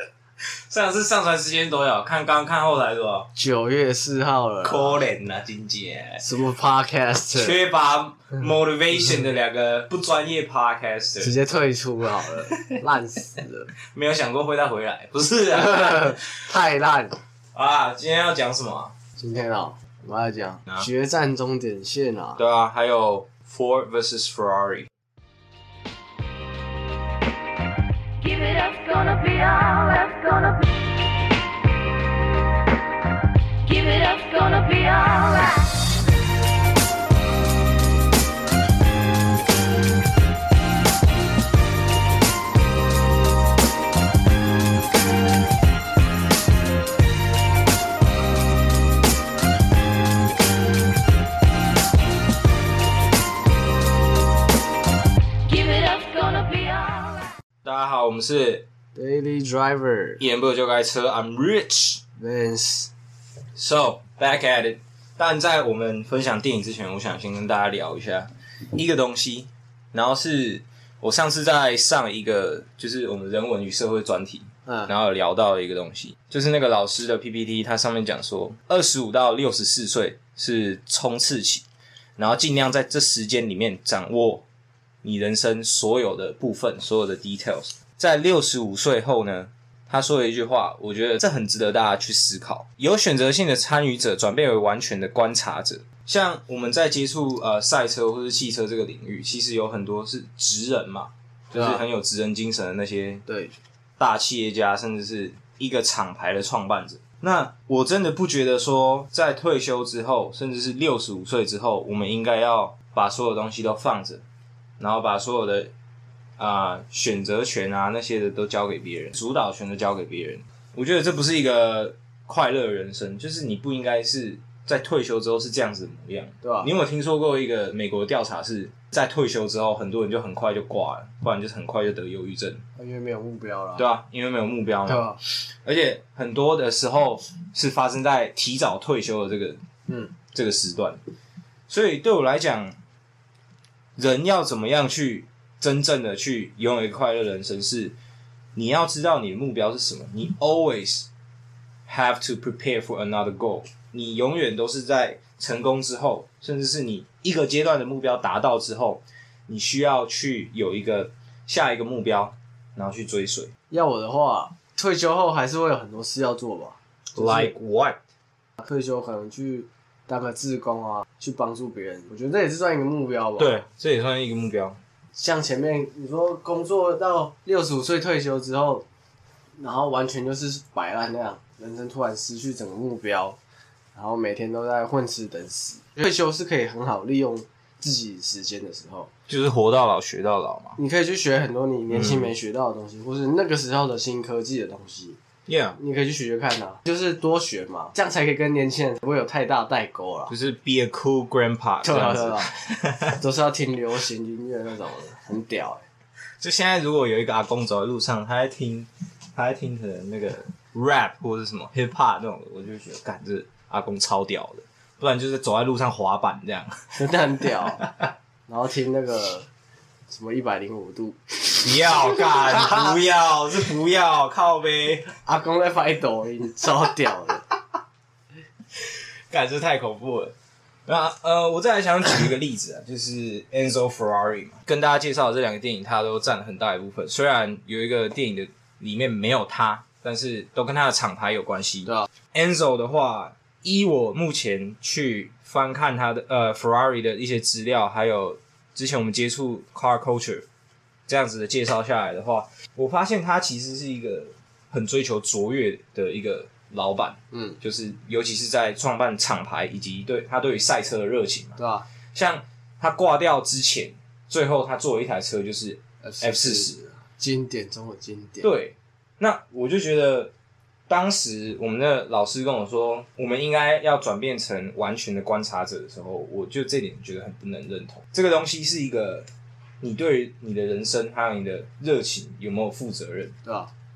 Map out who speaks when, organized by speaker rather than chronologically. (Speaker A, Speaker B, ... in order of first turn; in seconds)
Speaker A: 0.7-3.3, 4.6-6.2, 7.3-11.3, 12.5-12.8, 13.9-16.4, 17.5-18.9, 22.4-24.9, 57.6-58.6, 60.2-62.0, 63.6-81.7, 82.2-84.5, 85.0-103.3, 104.0-114.2, 114.8-115.7, 116.4-132.6, 133.8-135.0, 135.7-139.6, 140.3-141.0, 141.7-142.8, 144.0-147.9, 148.6-151.1, 151.9-163.5, 167.2-168.0, 173.4-174.8, 189.3-190.8, 191.9-192.3, 195.5-195.8, 200.3-203.2, 206.4-217.0, 217.6-218.1, 221.6-225.2, 228.8-230.3, 230.9-250.4, 251.1-261.6, 262.1-266.8, 268.4-270.3, 270.9-279.3, 279.8-283.4
Speaker B: 3.4-5.0, 6.2-7.6, 11.2-13.7, 15.5-17.2, 19.2-22.4, 59.0-60.2, 62.2-62.9, 101.5-101.8, 103.3-103.5, 126.4-126.7, 132.8-133.8, 134.8-135.2, 139.9-140.1, 163.7-167.5, 168.6-173.5, 175.2-178.9, 179.6-183.4, 183.9-189.1, 190.8-195.2, 195.8-200.3, 201.8-202.5, 203.2-205.8, 217.0-217.8, 218.5-219.5, 220.1-221.2, 221.8-222.9, 225.2-227.4, 257.3-257.6, 261.6-261.9, 266.0-268.5, 283.4-283.7
Speaker C: 28.2-30.6, 33.6-35.8, 55.5-57.3